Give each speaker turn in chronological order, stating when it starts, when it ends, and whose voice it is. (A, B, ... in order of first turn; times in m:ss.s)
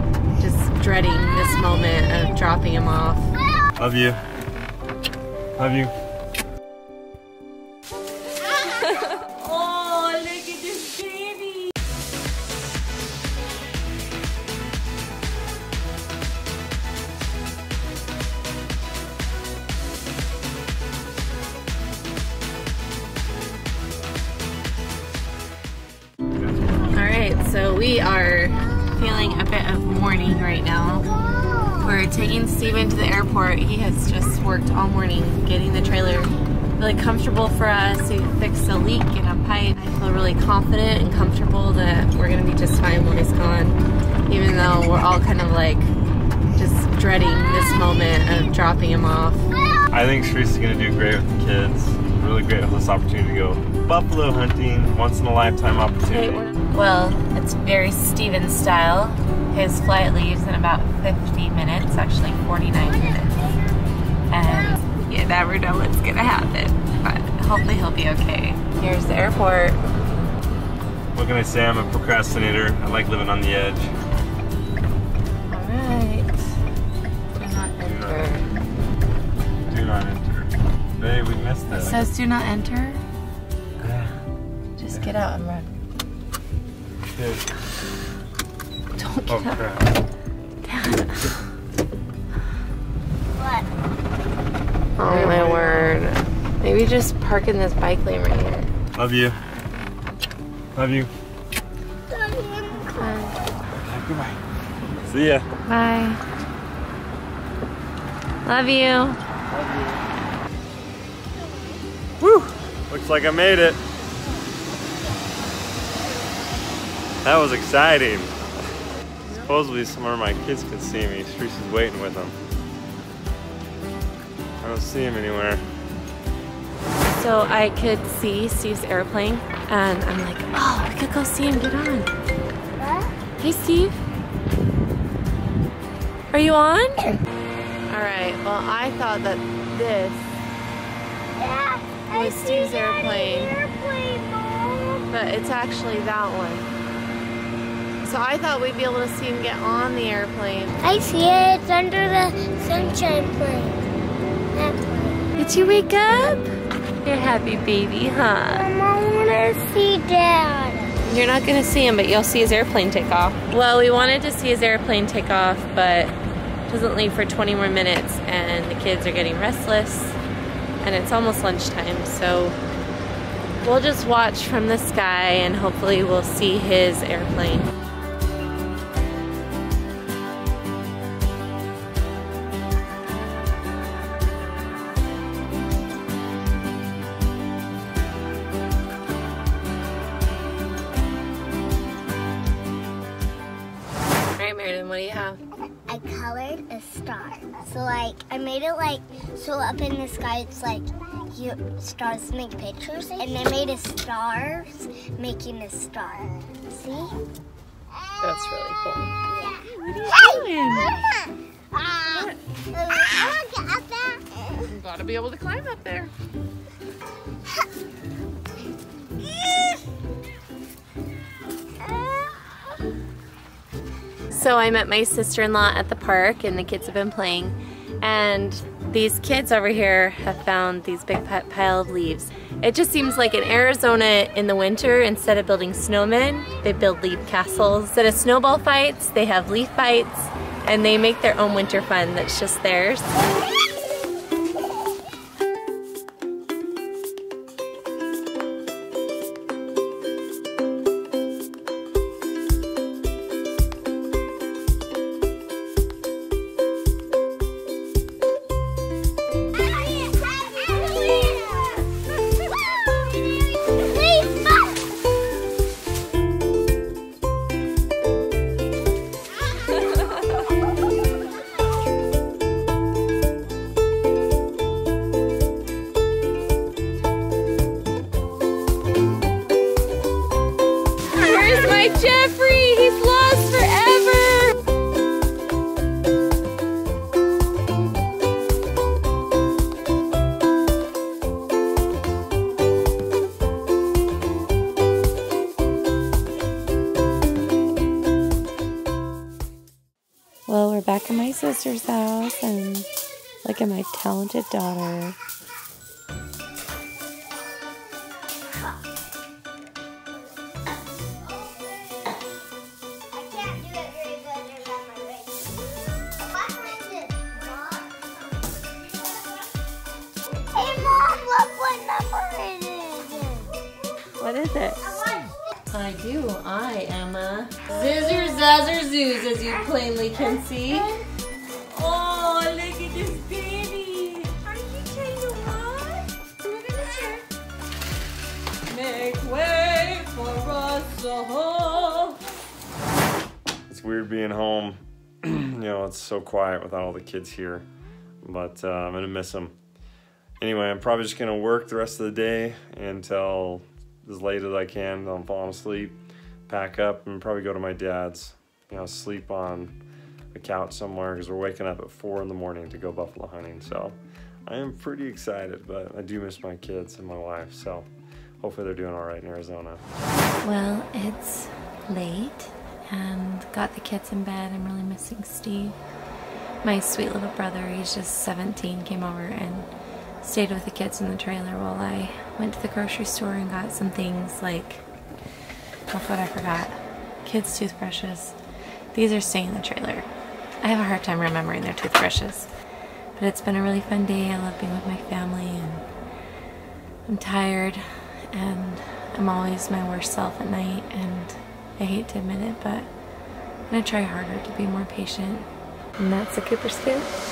0:00.4-0:03.3 A
0:03.8-0:04.2 B
0:05.6-0:05.9 B
0:09.2-0:11.7 A
0:26.4-0:26.9 B
0:26.9-0:31.1 A
0:31.3-0:31.8 C
0:31.8-0:45.9 A
0:46.6-0:49.5 A
0:49.9-0:56.5 B
0:56.1-1:03.4 A
1:04.3-1:09.8 A
1:11.1-1:13.9 B
1:15.5-1:16.3 A
1:17.4-1:18.5 A
1:17.8-1:18.3 B
1:19.7-1:22.1 B
1:21.7-1:23.0 A
1:23.8-1:24.1 B
1:24.8-1:25.7 A
1:27.1-1:27.4 B
1:28.9-1:29.6 A
1:29.3-1:30.0 B
1:30.7-1:31.4 A
1:33.4-1:33.7 C
1:35.0-1:38.7 A
1:35.3-1:35.8 B
1:38.9-1:39.4 B
1:40.7-1:41.1 B
1:42.1-1:43.3 C
1:42.9-1:43.4 A
1:43.7-1:44.4 B
1:45.0-1:45.5 B
1:45.7-1:46.2 A
1:48.4-1:49.2 A
1:49.5-1:50.0 B
1:52.2-1:53.8 B
1:57.2-1:58.3 B
1:59.3-2:02.4 B
2:04.6-2:05.6 B
2:07.1-2:12.1 A
2:12.8-2:13.2 C
2:13.4-2:14.0 A
2:16.3-2:17.2 A
2:17.9-2:20.4 A
2:21.4-2:25.1 C
2:22.1-2:23.6 A
2:25.1-2:26.7 A
2:28.0-2:30.9 A
2:30.8-2:33.9 C
2:34.5-2:35.2 C
2:35.4-2:36.5 A
2:37.0-2:38.7 A
2:38.5-2:41.0 C
2:41.0-2:46.2 A
2:46.7-2:50.2 A
2:50.8-2:52.6 A
2:53.6-2:57.7 A
3:14.4-3:15.4 A
3:15.9-3:27.2 C
3:28.2-3:29.1 A
3:29.3-3:34.7 C
3:29.8-3:31.0 A
3:34.7-3:36.1 A
3:42.0-3:42.5 C
3:44.3-4:03.3 A
4:19.8-4:21.9 C
4:23.7-4:24.8 C
4:41.1-4:44.6 A
5:00.5-5:02.9 A
5:03.4-5:05.2 A
5:11.5-5:12.1 C
5:13.1-5:15.6 C
5:16.1-5:18.1 C
5:20.3-5:23.6 C
5:24.2-5:24.8 A
5:24.9-5:25.4 C
5:25.7-5:31.0 A
5:31.7-5:37.2 A
5:38.7-5:42.2 A
5:43.7-5:47.7 B
5:48.2-5:49.6 B
5:50.4-5:56.0 B
5:56.5-5:59.7 B
6:00.3-6:04.0 B
6:04.5-6:07.9 B
6:08.4-6:09.8 B
6:10.4-6:15.8 A
6:16.6-6:19.7 A
6:20.2-6:24.8 A
6:25.9-6:28.4 A
6:28.9-6:30.1 A
6:30.6-6:32.5 A
6:33.2-6:35.8 A
6:37.1-6:42.9 A
6:43.7-6:45.5 A
6:46.0-6:47.1 A